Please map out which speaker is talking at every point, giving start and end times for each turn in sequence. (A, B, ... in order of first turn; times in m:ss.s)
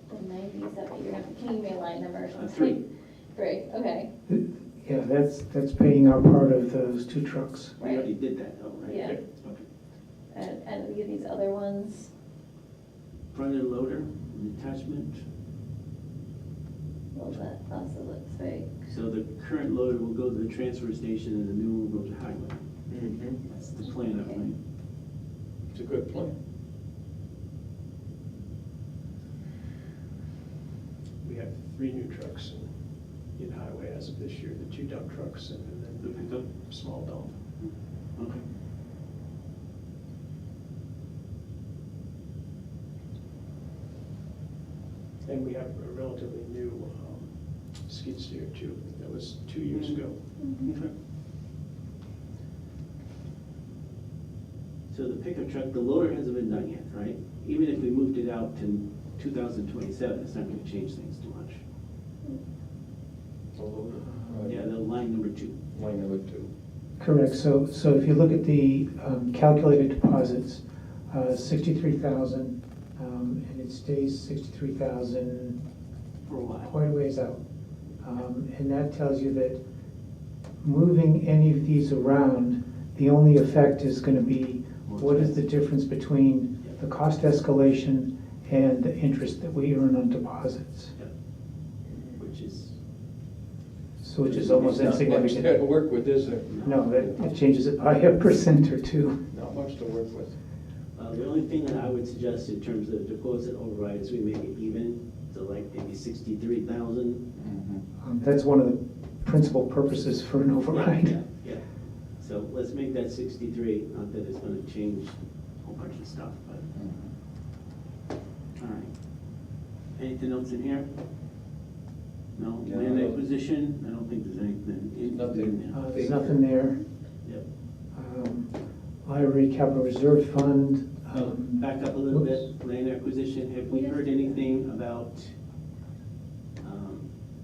0:00.1-0:02.8 A
0:02.3-0:02.8 B
0:03.3-0:04.1 A
0:04.3-0:07.8 C
0:07.8-0:08.1 A
0:07.8-0:09.6 B
0:08.8-0:09.2 A
0:10.3-0:12.1 A
0:13.3-0:15.2 B
0:17.1-0:18.7 A
0:18.9-0:22.6 B
0:22.9-0:23.4 D
0:23.5-0:24.6 B
0:23.8-0:24.4 A
0:25.7-0:26.3 D
0:31.2-0:37.4 E
0:36.0-0:36.5 B
0:37.6-0:38.4 B
0:45.2-0:50.3 E
0:49.7-0:50.0 B
0:50.4-0:50.7 A
0:50.6-0:50.9 B
0:54.9-1:01.6 B
1:03.6-1:04.7 D
1:04.0-1:04.5 C
1:04.4-1:05.6 B
1:05.7-1:06.5 D
1:07.0-1:15.6 C
1:16.3-1:16.7 B
1:16.6-1:17.4 C
1:18.0-1:19.6 C
1:20.6-1:31.0 C
1:24.9-1:25.4 B
1:32.2-1:32.8 B
1:34.0-1:35.6 C
1:34.3-1:34.9 B
1:34.6-1:37.1 D
1:36.5-1:36.8 B
1:36.6-1:39.2 C
1:39.3-1:40.4 D
1:41.0-1:47.3 B
1:47.4-1:47.8 D
1:48.0-1:51.2 C
1:50.7-1:56.7 B
1:56.7-1:57.1 D
1:58.6-1:59.0 B
2:00.0-2:00.9 B
2:02.4-2:05.8 B
2:02.6-2:03.2 D
2:05.0-2:06.4 D
2:05.7-2:06.8 C
2:07.9-2:12.3 C
2:11.1-2:15.3 B
2:13.7-2:14.4 A
2:16.6-2:17.1 B